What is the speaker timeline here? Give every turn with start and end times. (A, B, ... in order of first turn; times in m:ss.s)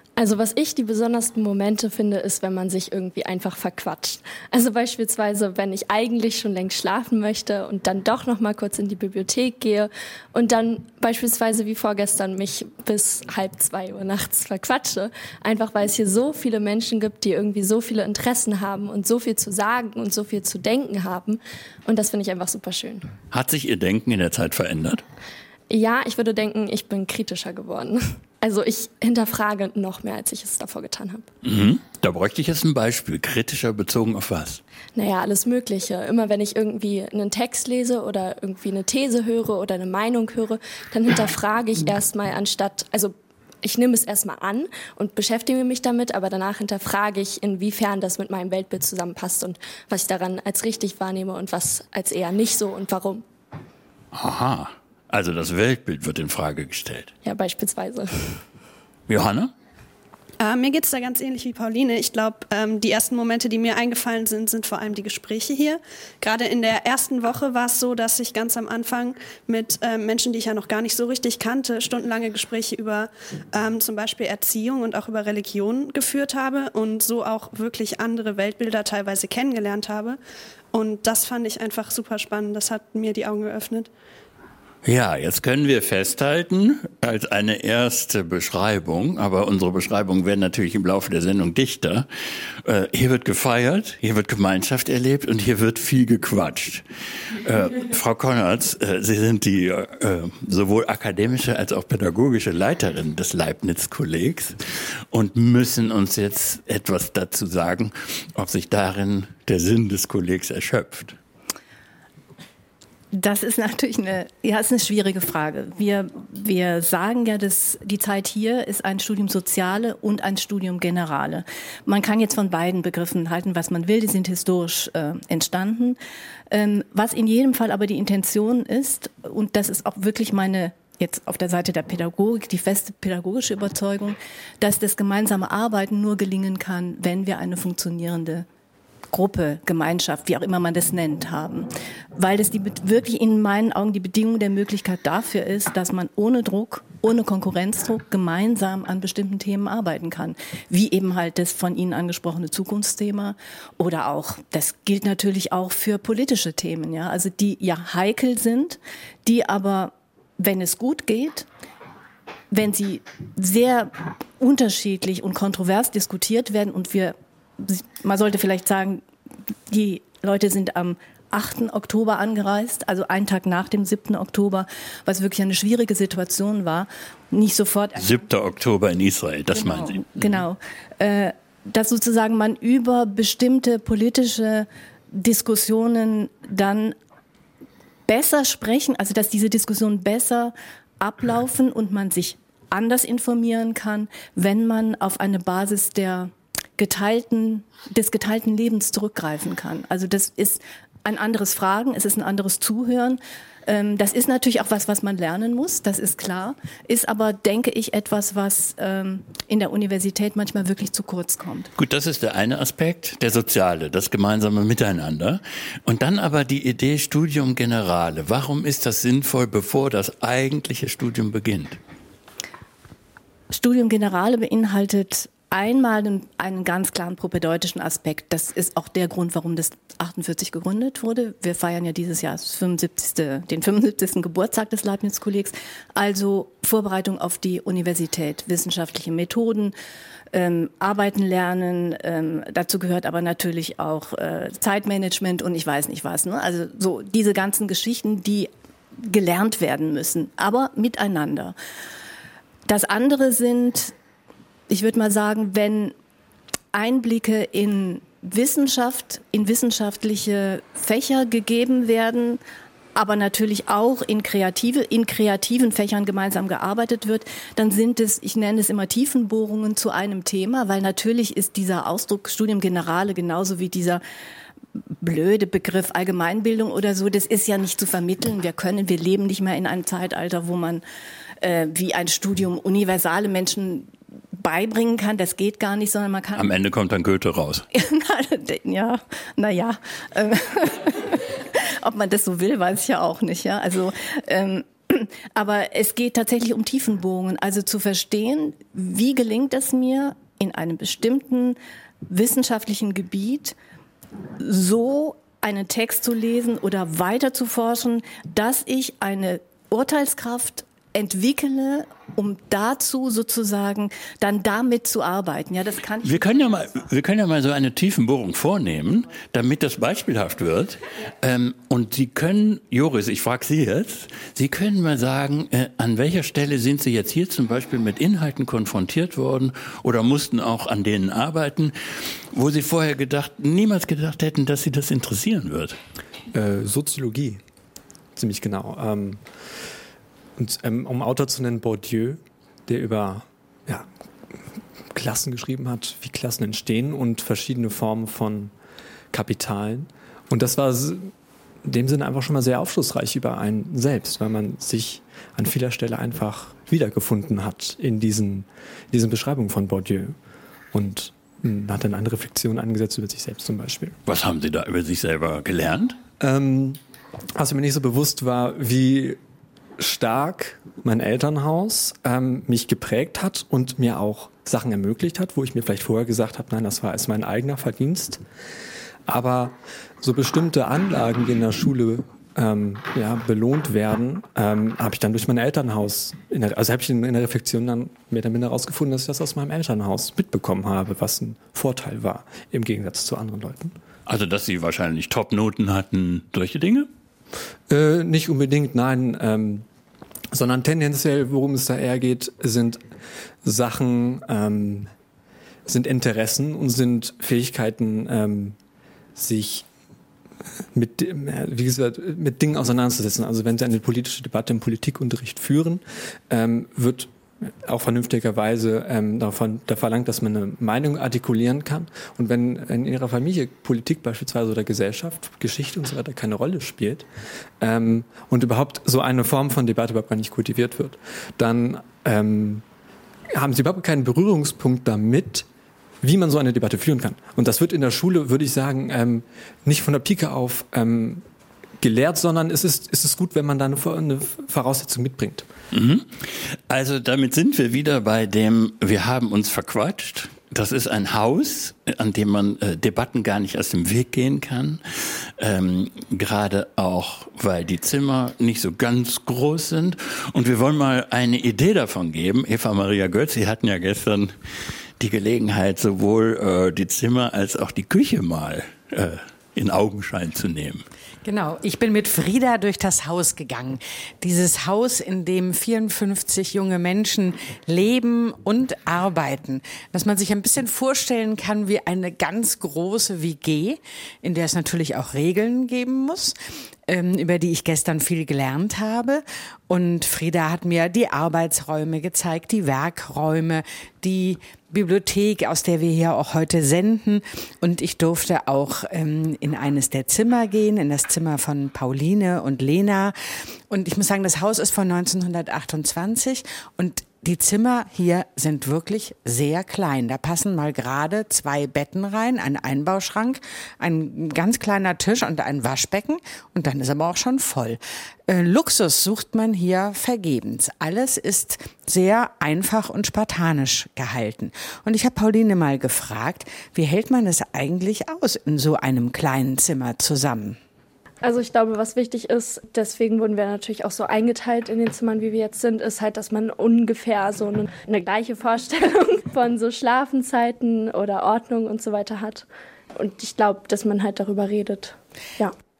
0:00.2-0:23.1 A
0:23.3-0:25.0 B
0:25.7-0:31.3 A
0:31.4-0:34.6 B
0:35.0-0:53.2 A
0:54.1-0:57.1 B
0:57.2-0:58.1 A
0:59.1-0:59.5 B
1:00.4-1:20.2 C
1:20.7-1:23.9 C
1:24.8-1:32.1 B
1:32.6-1:36.8 B
1:37.4-1:44.6 B
1:45.1-1:51.2 B
1:53.1-2:06.0 D
2:06.5-2:18.5 D
2:19.1-2:41.5 D
2:42.5-2:49.0 D
2:49.7-2:58.2 D
2:58.0-3:00.4 B
2:59.5-3:07.0 D
3:08.1-3:31.7 D
3:31.8-3:41.8 B
3:43.5-3:59.7 D
4:00.3-4:11.6 D
4:12.7-4:13.9 D
4:14.7-4:15.9 D
4:16.7-4:22.4 D
4:23.0-4:34.0 D
4:35.0-4:40.8 D
4:41.4-4:46.5 D
4:46.4-4:47.6 B
4:47.7-5:03.6 D
5:04.4-5:16.7 D
5:16.0-5:35.8 B
5:36.3-5:37.4 E
5:38.2-5:39.3 E
5:40.4-5:43.9 E
5:44.9-5:48.5 E
5:49.1-5:51.1 E
5:51.6-6:00.2 E
6:00.7-6:04.0 E
6:04.1-6:06.0 B
6:06.2-6:06.8 E
6:07.4-6:09.2 E
6:09.8-6:18.2 E
6:19.1-6:33.8 E
6:34.1-6:36.9 B
6:37.7-6:39.7 E
6:40.3-6:42.8 E
6:43.4-6:44.9 E
6:45.7-6:48.6 E
6:49.2-6:49.7 E
6:50.7-6:57.1 E
6:57.6-7:07.1 E
7:07.6-7:12.6 E
7:13.4-7:15.5 E
7:16.0-7:21.2 E
7:21.8-7:25.5 E
7:25.7-7:44.3 B
7:45.0-7:50.8 B
7:51.2-8:23.2 F
8:23.7-8:50.6 F
8:51.2-9:05.5 A